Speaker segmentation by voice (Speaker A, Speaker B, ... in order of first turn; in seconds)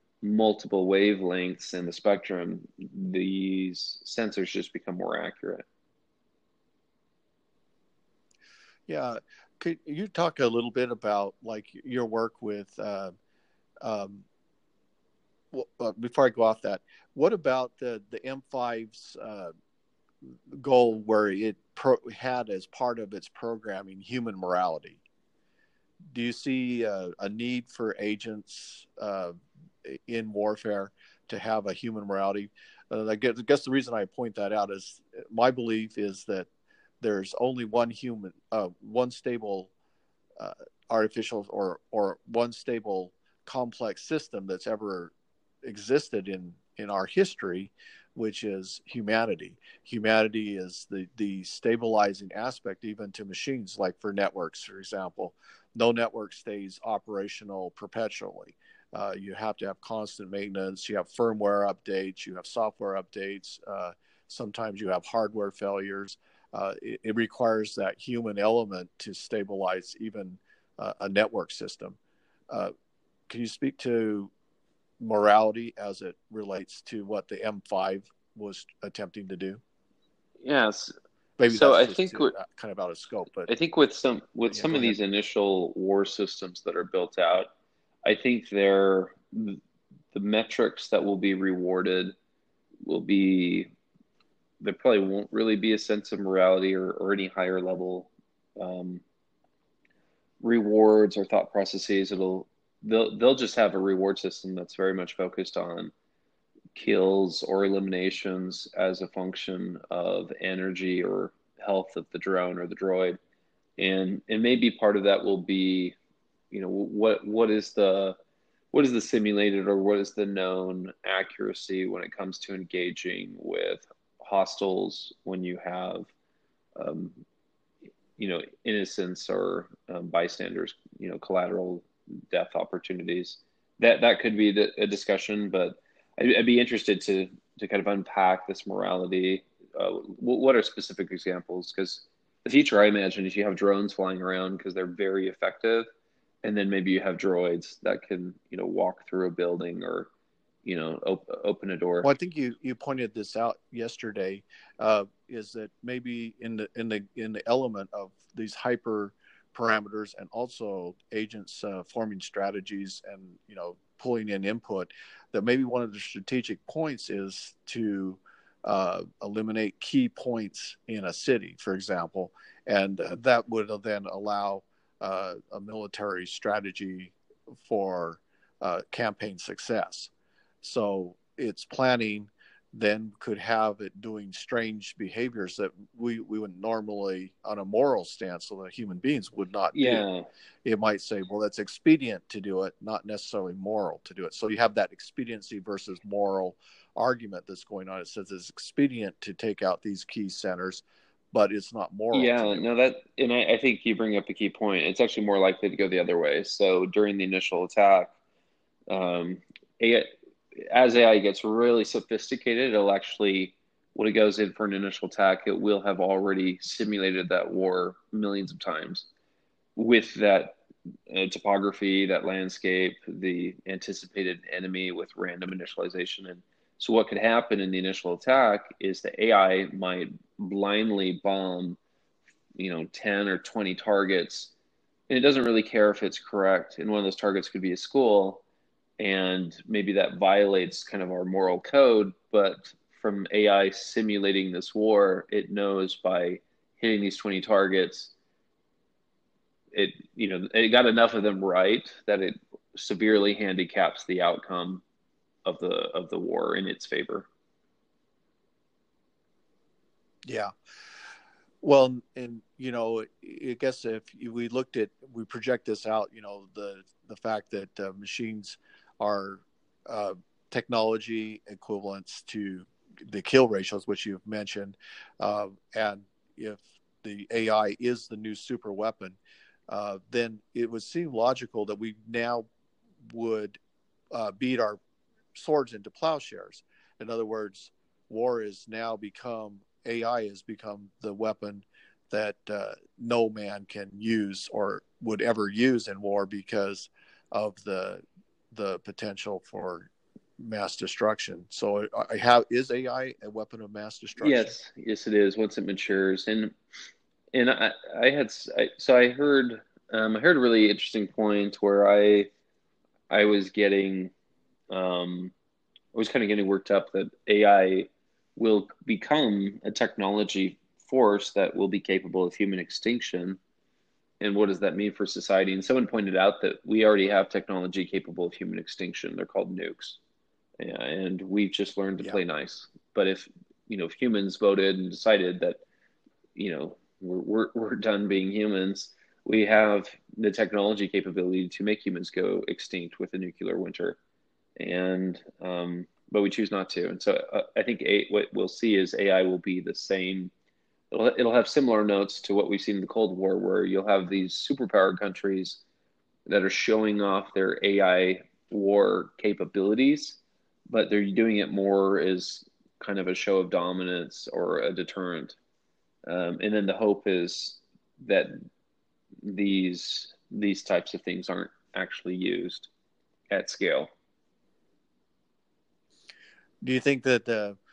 Speaker A: 0.2-5.7, 80.4-80.9, 81.5-82.3, 83.5-87.5, 88.0-89.6, 90.1-92.2, 92.8-93.7, 94.6-99.0, 100.4-105.9, 106.8-113.2, 113.8-116.0, 116.5-118.2, 118.7-126.1, 126.8-127.2, 128.2-145.9, 146.4-150.1, 150.6-152.1, 189.7-190.3, 202.1-208.1, 208.9-219.1, 219.8-220.6, 221.1-231.8, 232.6-234.5, 235.1-238.4, 239.0-248.1, 249.7-254.8, 255.4-257.3, 304.2-306.6, 307.3-312.3, 313.1-314.1, 314.7-315.3, 315.9-323.4, 324.2-330.0, 330.6-335.6, 336.4-344.0, 344.6-350.3, 350.9-355.6, 356.3-360.2, 360.7-365.4, 366.1-368.4, 369.2-372.7, 373.3-373.9
Speaker B: 8.9-13.1, 13.8-14.2, 15.5-19.5, 20.5-25.0, 26.1-36.5, 37.0-39.7, 40.4-72.0, 73.3-74.3, 75.0-79.6, 81.4-83.5, 84.5-85.0, 152.0-180.1, 180.6-190.1, 190.7-202.7, 260.2-260.5, 261.6-279.2, 279.7-282.5, 283.0-283.6, 284.1-284.8, 285.4-304.6, 376.6-377.6